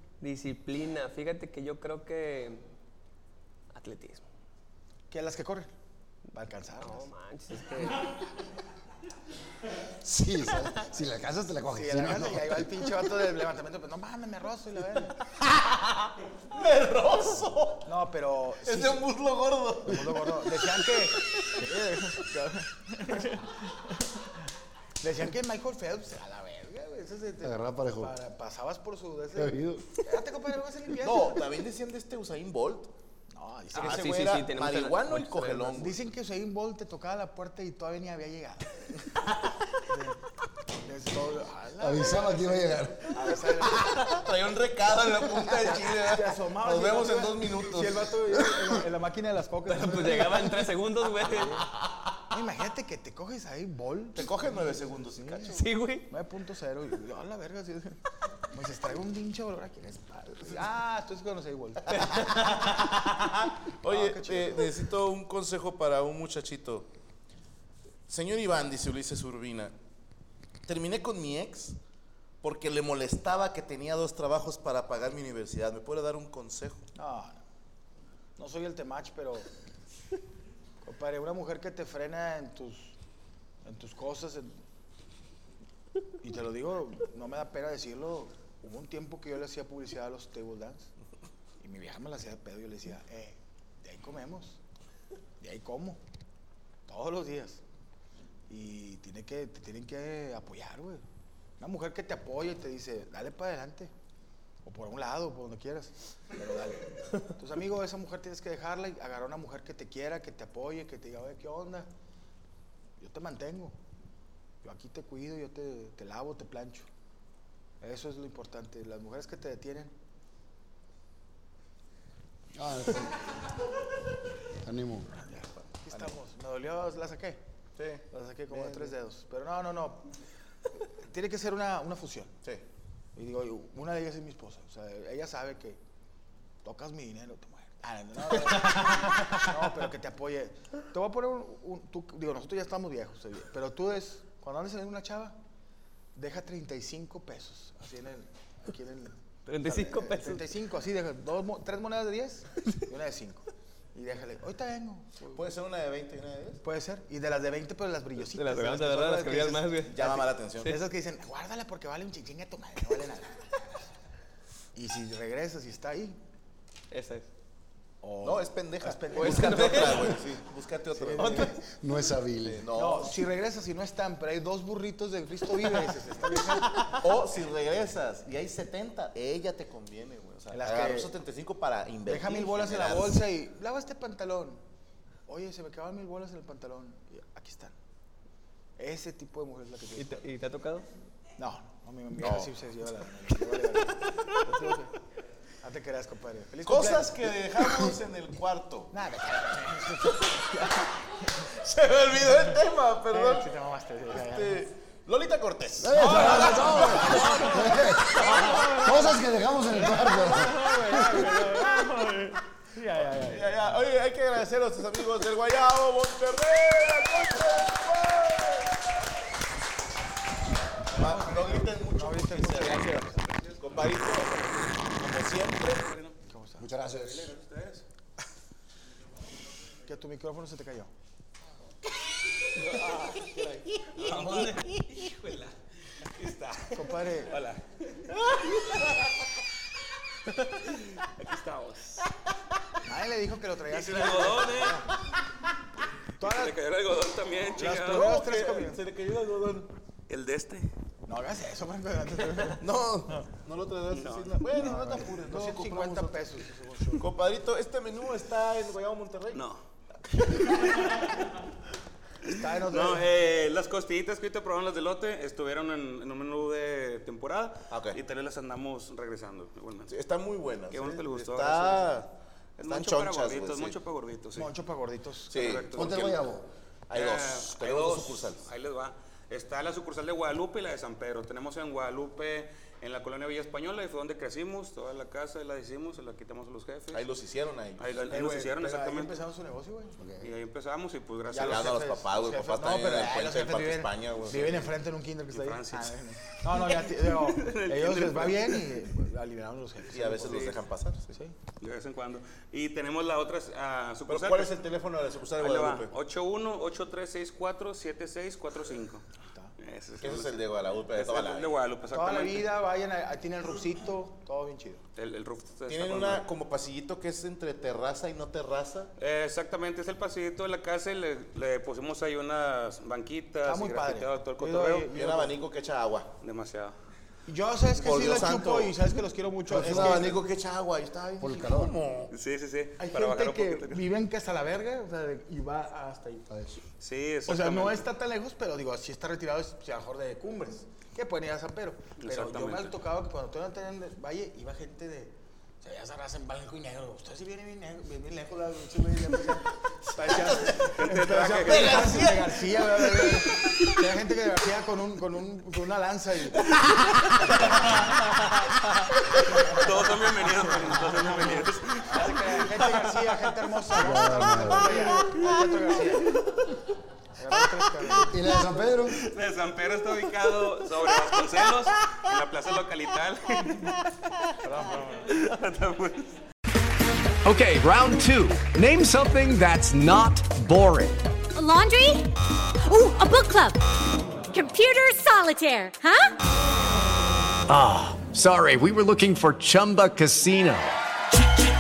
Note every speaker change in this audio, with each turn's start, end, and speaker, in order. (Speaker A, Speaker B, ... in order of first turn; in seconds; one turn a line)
Speaker A: 0.2-2.6
Speaker A: 3.7-4.2
Speaker B: 5.1-5.7
Speaker B: 6.3-7.1
Speaker A: 6.8-8.2
Speaker C: 10.0-12.8
Speaker B: 11.7-15.2
Speaker D: 16.5-17.9
Speaker B: 17.9-19.1
Speaker D: 18.6-20.1
Speaker B: 19.9-23.9
Speaker B: 25.0-31.5
Speaker C: 27.4-28.1
Speaker C: 29.4-29.9
Speaker D: 31.0-32.9
Speaker B: 33.3-34.2
Speaker A: 33.7-35.8
Speaker D: 33.7-36.0
Speaker B: 35.8-39.0
Speaker B: 39.9-40.2
Speaker B: 40.8-44.2
Speaker C: 41.8-43.4
Speaker D: 44.0-48.2
Speaker B: 45.4-50.7
Speaker A: 49.7-51.7
Speaker B: 51.2-51.6
Speaker B: 52.3-62.4
Speaker D: 54.1-55.6
Speaker A: 55.5-56.1
Speaker A: 61.9-63.1
Speaker D: 63.8-66.9
Speaker B: 63.8-64.8
Speaker D: 68.1-69.7
Speaker D: 70.7-71.8
Speaker D: 72.4-76.8
Speaker B: 76.9-77.4
Speaker B: 78.4-79.5
Speaker B: 80.8-83.0
Speaker B: 83.6-84.5
Speaker B: 86.2-90.9
Speaker B: 91.6-94.6
Speaker B: 95.4-96.0
Speaker B: 96.9-97.6
Speaker B: 98.5-101.0
Speaker B: 101.6-103.9
Speaker B: 104.6-111.9
Speaker B: 113.0-113.7
Speaker B: 114.6-116.9
Speaker B: 117.8-119.9
Speaker C: 122.5-123.3
Speaker C: 124.6-125.1
Speaker B: 125.2-127.4
Speaker D: 127.8-128.9
Speaker B: 128.1-130.1
Speaker B: 130.9-132.4
Speaker B: 133.2-135.8
Speaker B: 136.6-145.4
Speaker A: 138.4-139.5
Speaker B: 146.1-155.5
Speaker A: 149.4-150.4
Speaker D: 155.3-156.6
Speaker B: 156.6-163.8
Speaker A: 158.2-160.0
Speaker D: 159.9-160.7
Speaker B: 164.7-166.2
Speaker A: 166.9-167.3
Speaker B: 168.0-170.2
Speaker D: 168.2-171.6
Speaker A: 169.1-170.2
Speaker B: 170.9-171.6
Speaker C: 171.7-172.7
Speaker D: 172.4-173.2
Speaker B: 172.7-177.1
Speaker A: 176.5-177.0
Speaker D: 177.0-183.2
Speaker B: 180.5-181.1
Speaker B: 182.1-184.6
Speaker B: 185.3-187.7
Speaker B: 188.8-190.2
Speaker A: 189.9-190.9
Speaker B: 191.4-194.9
Speaker D: 192.2-192.5
Speaker B: 195.6-197.4
Speaker D: 196.6-198.9
Speaker B: 198.9-201.5
Speaker D: 201.5-203.5
Speaker B: 203.1-204.7
Speaker D: 204.1-208.7
Speaker C: 205.8-211.4
Speaker B: 206.1-213.7
Speaker D: 213.2-218.9
Speaker D: 220.9-225.9
Speaker B: 220.9-223.1
Speaker E: 225.7-226.2
Speaker B: 226.3-226.7
Speaker C: 226.6-227.3
Speaker E: 226.9-227.9
Speaker B: 229.9-230.9
Speaker E: 232.5-235.5
Speaker E: 236.2-238.9
Speaker B: 236.7-237.3
Speaker E: 240.7-242.1
Speaker B: 242.8-244.9
Speaker E: 243.7-244.9
Speaker B: 246.2-246.5
Speaker E: 246.2-248.2
Speaker B: 247.5-248.8
Speaker D: 247.9-249.7
Speaker E: 250.1-250.7
Speaker B: 251.1-253.3
Speaker D: 252.6-256.2
Speaker E: 253.9-254.4
Speaker B: 254.6-257.1
Speaker D: 257.0-259.4
Speaker E: 259.3-259.6
Speaker E: 260.2-261.2
Speaker E: 262.2-269.9
Speaker B: 262.3-263.1
Speaker D: 267.7-268.0
Speaker D: 269.9-272.1
Speaker E: 270.7-272.0
Speaker E: 272.6-274.5
Speaker D: 272.6-273.8
Speaker B: 274.4-275.7
Speaker D: 275.3-276.2
Speaker E: 275.3-276.1
Speaker C: 275.8-276.5
Speaker D: 276.9-278.4
Speaker E: 276.9-287.1
Speaker D: 286.9-288.1
Speaker E: 287.8-289.2
Speaker B: 288.1-290.0
Speaker C: 290.0-290.3
Speaker E: 290.2-291.8
Speaker B: 291.3-300.5
Speaker D: 291.4-294.7
Speaker E: 295.3-296.0
Speaker E: 296.5-298.8
Speaker D: 299.9-301.1
Speaker B: 301.1-301.4
Speaker E: 301.6-304.6
Speaker D: 304.1-305.9
Speaker E: 305.4-309.0
Speaker E: 309.6-312.5
Speaker D: 310.0-311.6
Speaker B: 311.9-314.8
Speaker E: 314.9-316.3
Speaker D: 315.7-318.9
Speaker E: 319.0-324.9
Speaker B: 323.4-325.4
Speaker D: 324.9-326.1
Speaker E: 326.2-326.7
Speaker B: 327.2-330.2
Speaker D: 327.7-328.8
Speaker C: 329.5-330.1
Speaker D: 329.5-332.1
Speaker C: 331.2-331.8
Speaker E: 332.1-333.9
Speaker B: 332.8-336.3
Speaker C: 336.3-336.6
Speaker E: 336.8-337.9
Speaker B: 337.3-356.4
Speaker E: 342.0-342.8
Speaker D: 350.1-350.6
Speaker E: 350.7-352.1
Speaker D: 351.4-353.6
Speaker E: 356.7-363.4
Speaker B: 357.3-357.8
Speaker B: 359.4-366.1
Speaker C: 363.8-364.9
Speaker E: 364.0-365.9
Speaker B: 367.1-368.2
Speaker C: 368.1-369.0
Speaker E: 368.9-373.8
Speaker B: 374.4-375.1
Speaker E: 375.1-376.1
Speaker F: 377.2-381.1
Speaker G: 381.3-382.1
Speaker G: 382.6-383.6
Speaker G: 384.3-386.1
Speaker F: 387.5-390.8